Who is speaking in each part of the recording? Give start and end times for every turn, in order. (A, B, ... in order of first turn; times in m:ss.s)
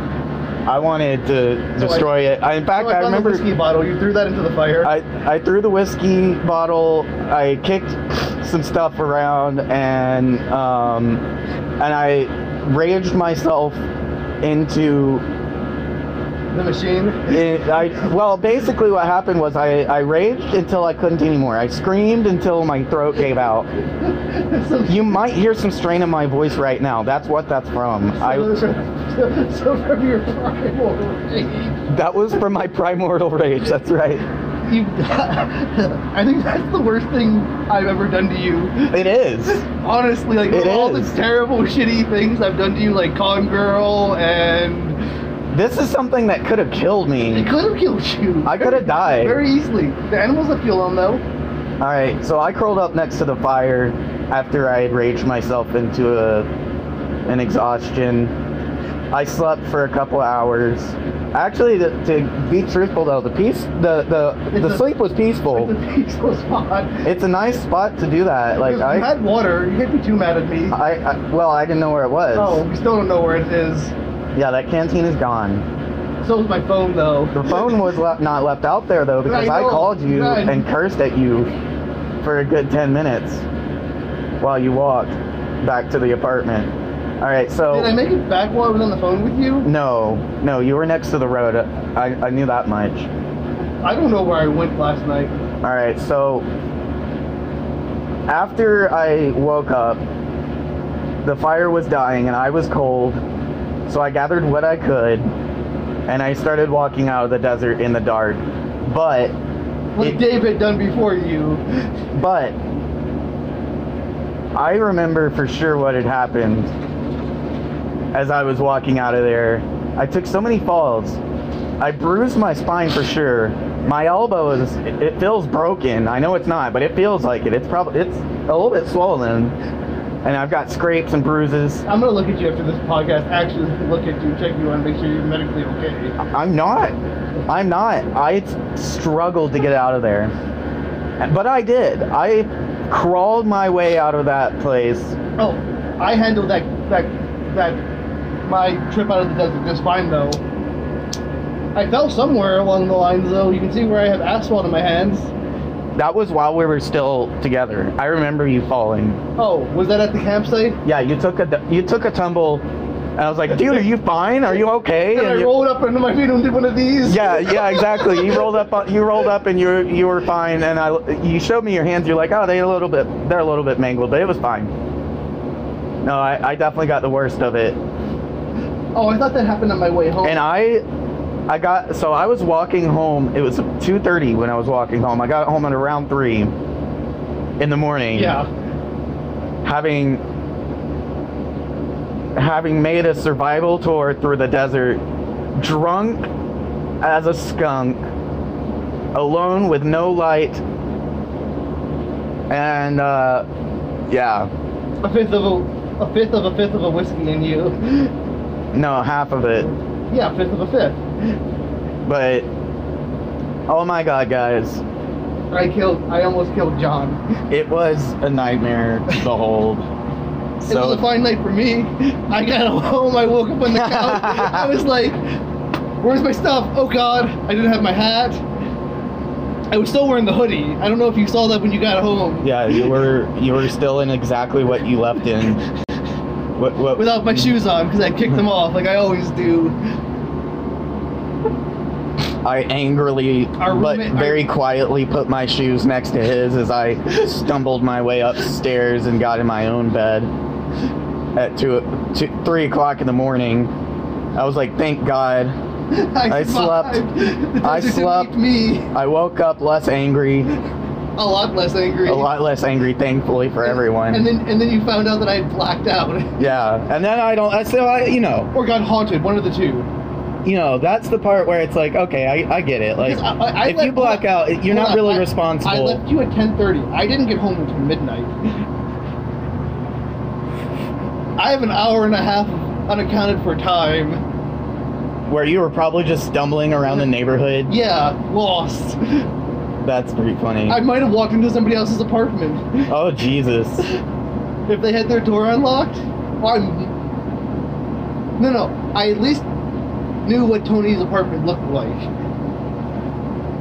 0:00.7-0:03.5 A
0:01.8-0:02.1 B
0:02.7-0:04.9 B
0:04.8-0:11.2 A
0:11.8-0:13.8 A
0:14.4-0:15.2 A
0:16.5-0:17.3 B
0:17.3-0:23.7 A
0:24.0-0:25.2 B
0:24.8-0:28.6 A
0:28.2-0:31.9 B
0:31.9-0:34.3 A
0:34.6-0:45.0 B
0:38.9-0:39.6 A
0:40.4-0:41.2 A
0:45.5-0:47.5 A
0:47.2-0:51.2 B
0:48.4-0:49.4 A
0:51.8-0:56.5 A
0:57.3-0:58.3 A
0:59.1-1:05.7 A
1:04.5-1:04.8 B
1:05.5-1:07.0 B
1:07.0-1:09.1 A
1:08.6-1:10.8 B
1:10.7-1:12.6 A
1:12.4-1:13.9 B
1:14.3-1:15.6 A
1:16.2-1:17.8 B
1:17.3-1:21.5 A
1:19.2-1:20.6 B
1:22.2-1:23.4 A
1:24.4-1:27.9 A
1:27.7-1:29.7 B
1:29.6-1:33.1 A
1:33.8-1:35.3 B
1:35.6-1:36.4 A
1:38.3-1:40.0 A
1:41.2-1:43.2 A
1:43.9-1:45.3 A
1:46.1-1:49.3 A
1:49.9-1:51.6 B
1:52.1-1:52.6 A
1:54.5-1:56.7 A
1:58.1-2:01.2 A
2:01.8-2:09.6 A
2:10.2-2:11.8 A
2:11.8-2:16.2 B
2:16.2-2:16.9 A
2:17.5-2:20.3 A
2:21.2-2:25.2 A
2:25.4-2:27.8 B
2:28.4-2:30.4 B
2:31.7-2:35.3 B
2:36.0-2:39.2 A
2:39.4-2:40.8 B
2:40.8-2:42.6 A
2:43.2-2:45.5 A
2:45.1-2:48.5 B
2:47.0-2:54.7 A
2:56.0-2:57.8 A
2:58.9-3:00.4 B
3:00.2-3:00.8 A
3:01.5-3:06.5 A
3:07.6-3:08.4 A
3:08.1-3:08.5 B
3:09.6-3:10.2 A
3:12.4-3:15.0 A
3:15.6-3:16.3 A
3:17.0-3:18.0 A
3:19.1-3:20.6 A
3:22.5-3:23.4 A
3:24.1-3:24.5 A
3:25.0-3:28.1 B
3:28.7-3:29.7 A
3:30.1-3:31.0 B
3:32.0-3:32.5 A
3:33.7-3:34.8 A
3:35.5-3:37.2 B
3:37.5-3:39.9 A
3:40.6-3:45.2 B
3:40.7-3:41.1 A
3:43.6-3:44.8 A
3:46.0-3:48.4 B
3:49.7-3:52.9 B
3:52.4-3:55.6 A
3:56.6-3:57.6 A
3:56.9-3:59.8 B
4:02.4-4:10.3 A
4:03.6-4:04.4 B
4:11.4-4:13.7 A
4:14.3-4:15.5 A
4:15.9-4:18.9 B
4:16.3-4:17.1 A
4:17.6-4:18.3 A
4:18.9-4:20.5 A
4:21.2-4:22.3 B
4:22.0-4:24.3 A
4:23.6-4:26.5 B
4:26.4-4:28.5 A
4:28.5-4:29.9 B
4:30.4-4:36.0 A
4:33.0-4:38.3 B
4:41.4-4:44.2 B
4:45.3-4:47.7 A
4:47.7-4:49.3 B
4:49.8-4:50.8 A
4:50.7-4:52.9 B
4:52.9-4:53.8 A
4:54.7-4:56.9 B
4:58.4-4:59.5 B
5:00.2-5:02.1 B